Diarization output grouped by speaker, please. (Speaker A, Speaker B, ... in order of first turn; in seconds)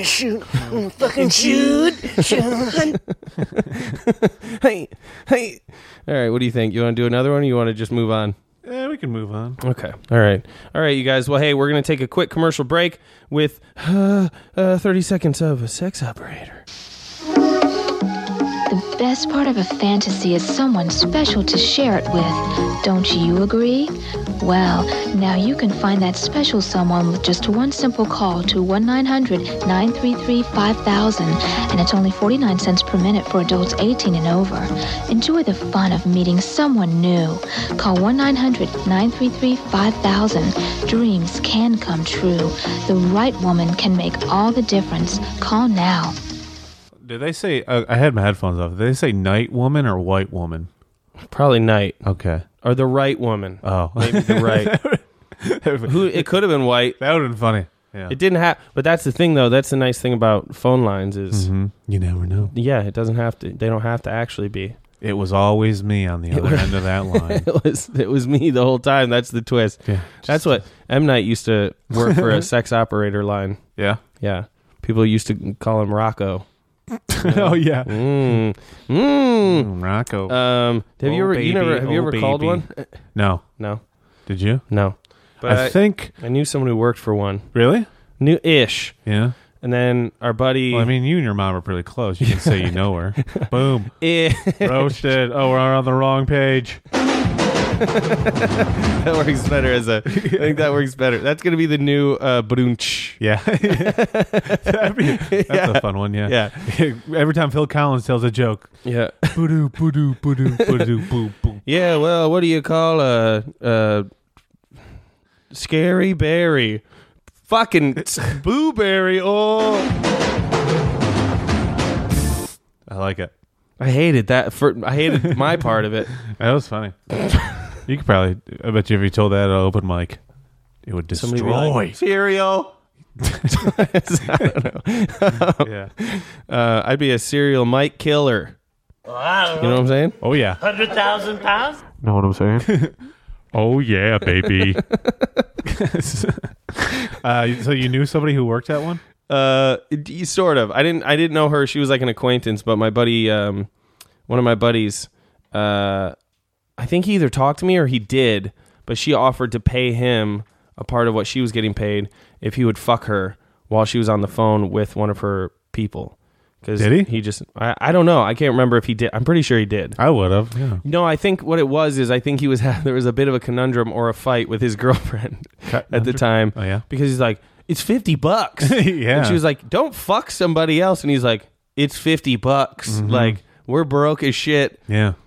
Speaker A: 1.1-8.3, 9.6-16.6, 51.3-52.0, 52.6-54.7, 55.8-57.0, 58.1-61.5, 62.5-64.8, 66.3-73.6, 74.1-76.5, 77.2-79.7, 80.3-83.0, 83.6-83.8, 84.7-87.5, 88.2-89.0, 89.6-90.9, 92.2-95.1, 98.2-106.7, 108.8-109.8, 110.5-111.0, 111.6-114.1, 115.5-116.8, 117.5-119.9, 123.8-126.1, 131.1-132.7, 133.5-138.6, 139.5-140.2, 141.3-141.7, 145.0-145.4, 149.3-153.7, 154.3-156.1, 156.8-170.0, 170.8-184.8
Speaker B: 8.6-9.6, 47.0-50.7, 52.0-52.4, 53.6-56.3, 57.0-58.1, 61.3-62.5, 65.0-67.5, 69.8-70.6, 72.0-72.4, 77.1-78.4, 79.4-83.6, 84.2-86.1, 87.5-87.9, 89.0-89.3, 90.7-96.8, 100.1-100.5, 103.2-111.6, 122.8-123.3, 126.2-127.0, 127.8-130.2, 130.8-132.0, 133.2-133.9, 135.5-135.9, 140.2-140.6, 142.0-142.9, 143.5-144.8, 145.6-149.0, 166.8-167.1, 170.0-170.8, 175.7-176.8, 178.6-179.4, 182.8-183.4, 184.9-185.2
Speaker C: 18.7-46.2